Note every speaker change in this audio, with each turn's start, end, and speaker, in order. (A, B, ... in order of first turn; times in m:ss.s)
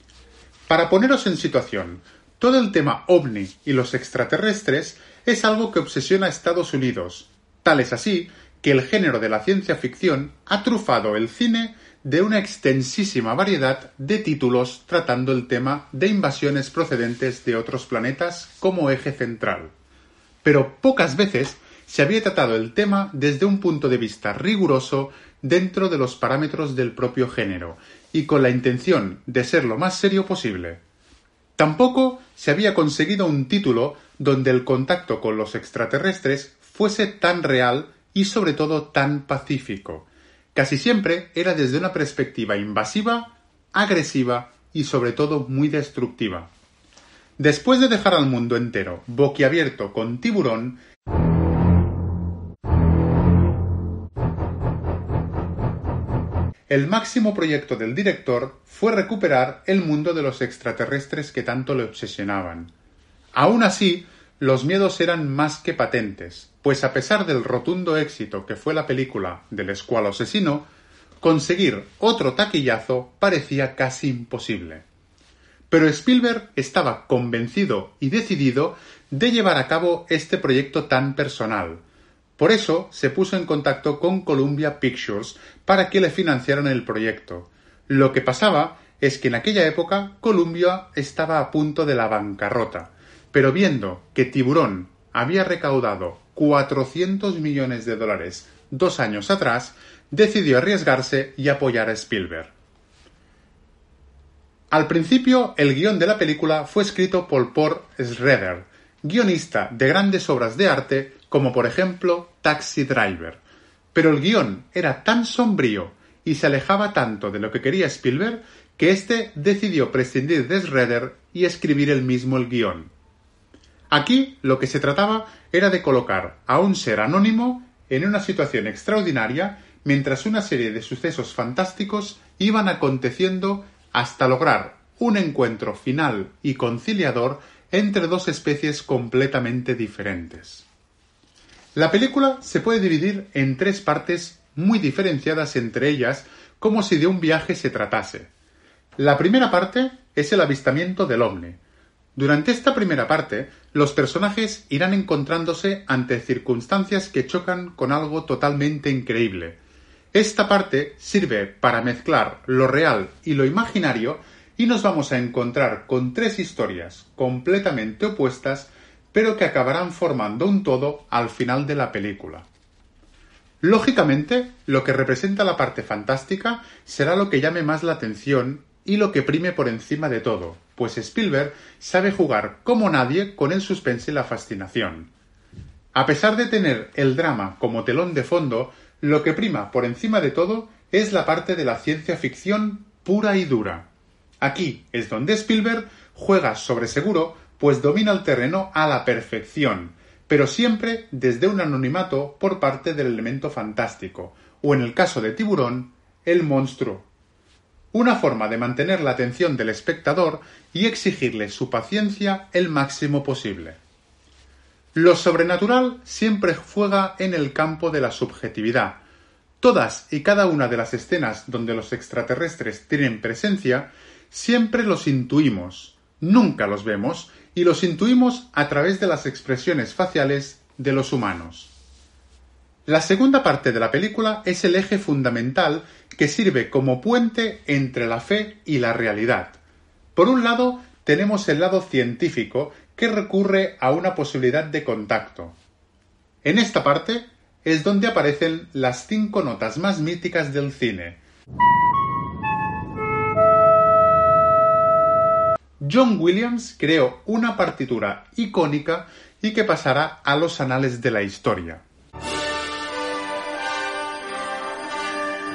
0:00.7-0:19.7 A
0:20.4-0:30.8 A
0:31.6-0:46.5 A
0:47.4-0:50.8 A
0:56.7-1:02.7 A
1:03.3-1:10.7 A
1:11.2-1:14.8 A
1:15.7-1:21.8 A
1:22.4-1:42.5 A
1:44.7-1:53.4 A
1:53.9-2:02.9 A
2:03.9-2:20.6 A
2:21.7-2:28.3 A
2:29.0-2:31.6 A
2:32.2-2:39.6 A
2:40.1-2:52.5 A
2:53.6-3:05.1 A
3:05.9-3:13.9 A
3:14.4-3:27.1 A
3:27.9-3:33.8 A
3:34.9-3:39.0 A
3:39.6-3:51.7 A
3:52.9-3:59.6 A
4:00.2-4:05.6 A
4:06.4-4:11.2 A
4:15.8-4:21.8 A